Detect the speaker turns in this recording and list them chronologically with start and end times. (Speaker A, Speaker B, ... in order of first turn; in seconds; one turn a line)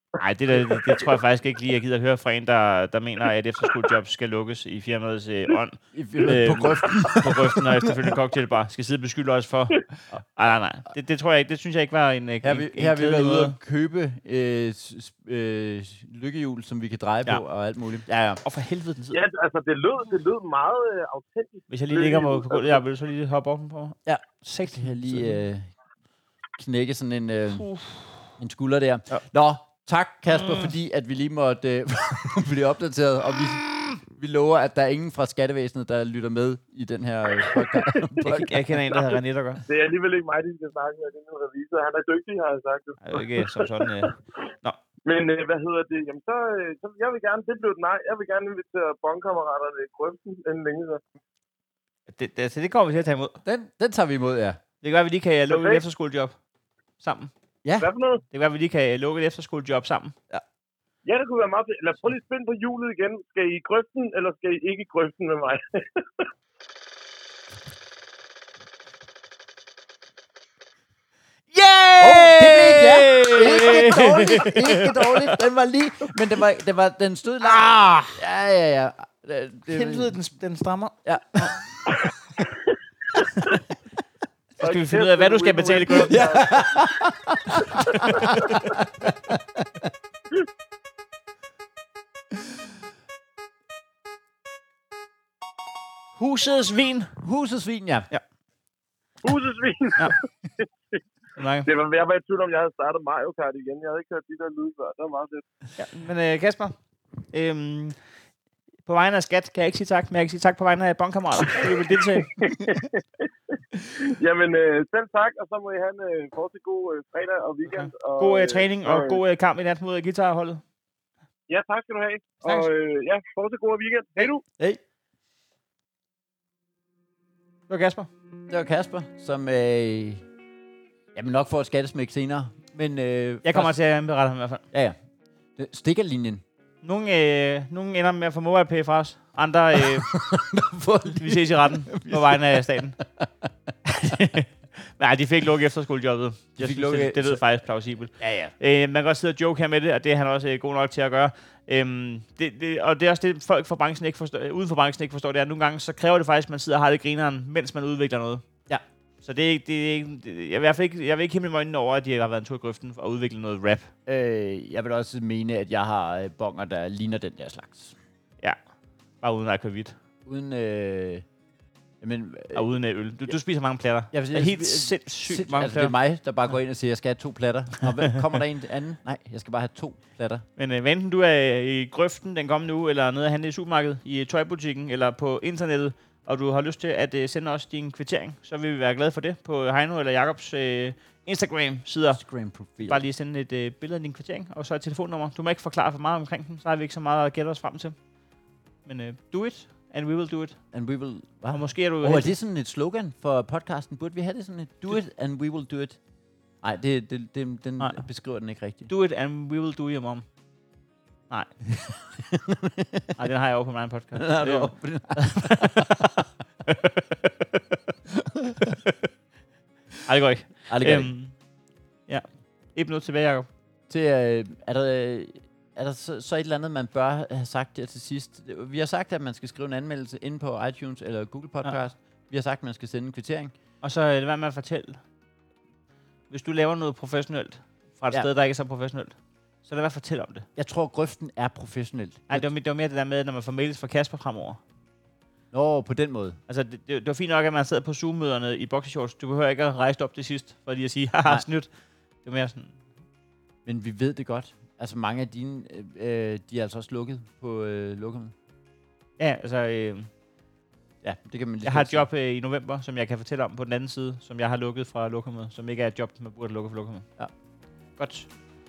Speaker A: 0.2-13.6
Speaker B: 0.6-1.1
Speaker C: 5.9-8.1
Speaker B: 6.8-7.2
Speaker C: 12.4-18.1
Speaker A: 18.1-19.2
Speaker B: 19.1-22.8
Speaker A: 21.7-25.4
Speaker C: 24.1-25.7
Speaker C: 26.6-27.7
Speaker A: 27.6-28.1
Speaker C: 28.4-38.5
Speaker A: 30.3-30.7
Speaker A: 38.2-39.6
Speaker B: 38.9-44.1
Speaker A: 43.0-44.8
Speaker B: 45.1-51.0
Speaker A: 52.1-53.4
Speaker C: 53.4-54.6
Speaker A: 54.8-56.4
Speaker B: 55.5-55.8
Speaker A: 57.0-57.3
Speaker B: 57.8-58.2
Speaker A: 58.3-60.2
Speaker B: 61.0-66.3
Speaker A: 71.5-75.4
Speaker C: 72.0-80.2
Speaker A: 77.5-78.0
Speaker A: 79.7-81.5
Speaker C: 81.0-81.5
Speaker B: 84.6-86.8
Speaker A: 84.6-86.3
Speaker C: 86.1-89.9
Speaker B: 87.8-88.5
Speaker A: 96.2-97.2
Speaker C: 97.2-98.1
Speaker B: 99.2-101.0
Speaker A: 101.4-101.7
Speaker B: 101.6-105.4
Speaker A: 105.8-106.8
Speaker A: 107.3-108.0
Speaker A: 108.8-112.3
Speaker B: 112.2-113.3
Speaker B: 113.9-119.2
Speaker A: 117.7-120.6
Speaker B: 121.5-124.4
Speaker A: 122.4-122.7
Speaker A: 127.7-128.1
Speaker C: 128.5-130.2
Speaker C: 131.1-133.8
Speaker A: 133.4-134.6
Speaker C: 134.7-135.0
Speaker C: 135.6-136.4
Speaker A: 136.8-140.1
Speaker C: 139.8-143.5
Speaker A: 141.2-143.0
Speaker A: 143.8-158.4
Speaker C: 146.6-147.4
Speaker C: 148.2-148.5
Speaker A: 159.2-163.9
Speaker C: 164.1-167.9
Speaker A: 169.2-169.9
Speaker C: 170.3-171.2
Speaker C: 172.0-172.7
Speaker A: 172.5-175.9
Speaker C: 174.1-180.4
Speaker A: 180.6-192.2
Speaker C: 192.1-193.0
Speaker A: 192.9-198.0
Speaker A: 198.9-200.6
Speaker C: 200.7-206.0
Speaker A: 201.5-202.3
Speaker C: 206.6-208.9
Speaker A: 207.8-208.1
Speaker A: 208.9-210.2
Speaker A: 211.3-211.6
Speaker C: 212.2-213.2
Speaker A: 213.2-217.8
Speaker C: 214.2-215.9
Speaker C: 218.2-218.7
Speaker A: 220.1-221.3
Speaker C: 220.7-221.1
Speaker A: 222.1-223.5
Speaker C: 223.9-233.5
Speaker A: 233.8-235.0
Speaker A: 236.3-240.5
Speaker C: 240.6-242.5
Speaker A: 242.3-244.6
Speaker C: 245.5-246.4
Speaker A: 246.5-251.7
Speaker A: 252.2-252.8
Speaker C: 253.6-258.3
Speaker A: 259.2-260.1
Speaker C: 261.0-262.1
Speaker A: 261.6-267.1
Speaker A: 268.0-268.3